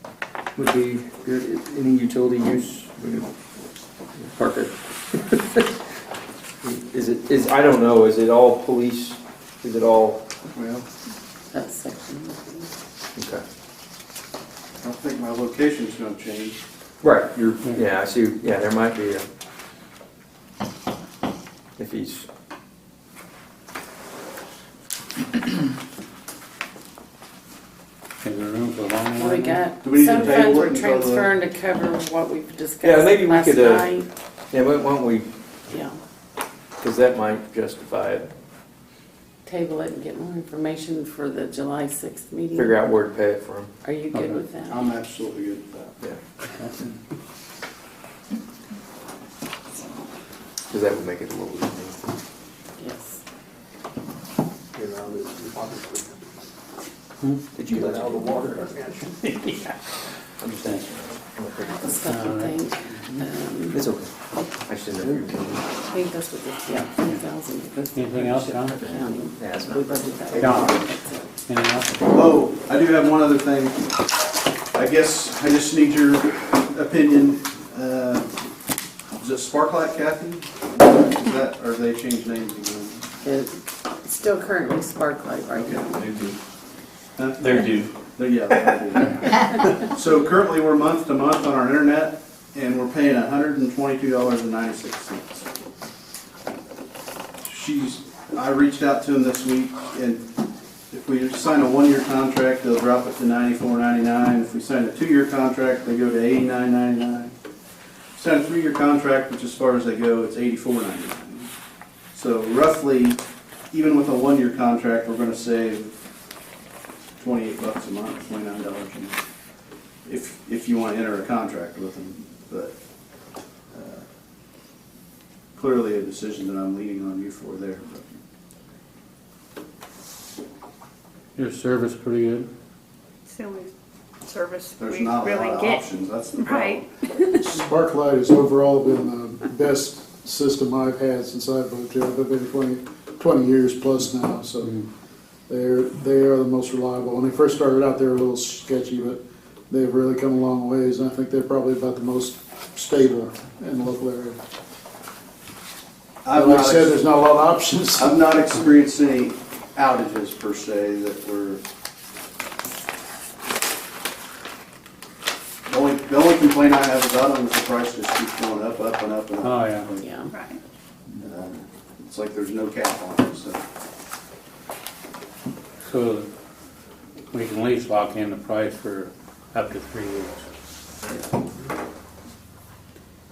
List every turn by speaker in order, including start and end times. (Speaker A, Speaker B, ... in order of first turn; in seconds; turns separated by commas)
Speaker A: 0.6-3.3, Speaker A: 4.2-5.6, Speaker A: 6.6-10.3, Speaker B: 10.5-10.8, Speaker C: 11.5-12.7, Speaker A: 13.2-13.4, Speaker B: 14.8-16.6, Speaker A: 17.0-19.3, Speaker A: 21.8-22.3, Speaker D: 28.2-29.7, Speaker C: 29.2-34.1, Speaker B: 29.8-31.3, Speaker A: 32.8-34.0, Speaker A: 34.5-35.3, Speaker C: 35.7-36.0, Speaker A: 36.8-38.3, Speaker C: 39.5-42.8, Speaker A: 42.5-43.7, Speaker C: 43.8-44.9, Speaker D: 44.1-44.4, Speaker B: 44.7-45.9, Speaker D: 46.6-46.9, Speaker A: 50.7-52.0, Speaker C: 52.8-53.2, Speaker A: 57.5-59.0, Speaker A: 60.4-62.0, Speaker D: 60.5-60.9, Speaker C: 61.6-63.8, Speaker D: 62.0-63.2, Speaker A: 63.7-64.1, Speaker A: 64.7-65.8, Speaker C: 65.9-71.3, Speaker D: 68.0-68.8, Speaker A: 68.4-70.7, Speaker D: 70.4-70.8, Speaker D: 71.5-72.0, Speaker B: 72.1-73.9, Speaker B: 74.7-78.3, Speaker B: 79.2-83.1, Speaker C: 83.2-86.0, Speaker B: 85.6-86.0, Speaker B: 87.2-95.5, Speaker A: 87.4-87.9, Speaker B: 97.4-100.2, Speaker B: 100.9-107.3, Speaker B: 108.2-111.5, Speaker B: 112.1-113.2, Speaker B: 113.7-115.9, Speaker B: 117.2-119.2, Speaker B: 120.0-122.8, Speaker B: 123.7-124.0, Speaker B: 125.5-128.2, Speaker D: 131.3-132.5, Speaker E: 133.3-133.7, Speaker E: 134.2-137.4, Speaker B: 134.8-136.9, Speaker F: 137.4-144.8, Speaker F: 145.5-154.4, Speaker B: 156.2-157.0, Speaker F: 156.3-158.2, Speaker B: 158.0-161.6, Speaker B: 165.7-169.6, Speaker D: 169.4-170.0, Speaker C: 170.0-170.3, Speaker E: 170.3-170.6, Speaker B: 171.2-173.6, Speaker D: 175.8-176.3, Speaker D: 177.3-180.4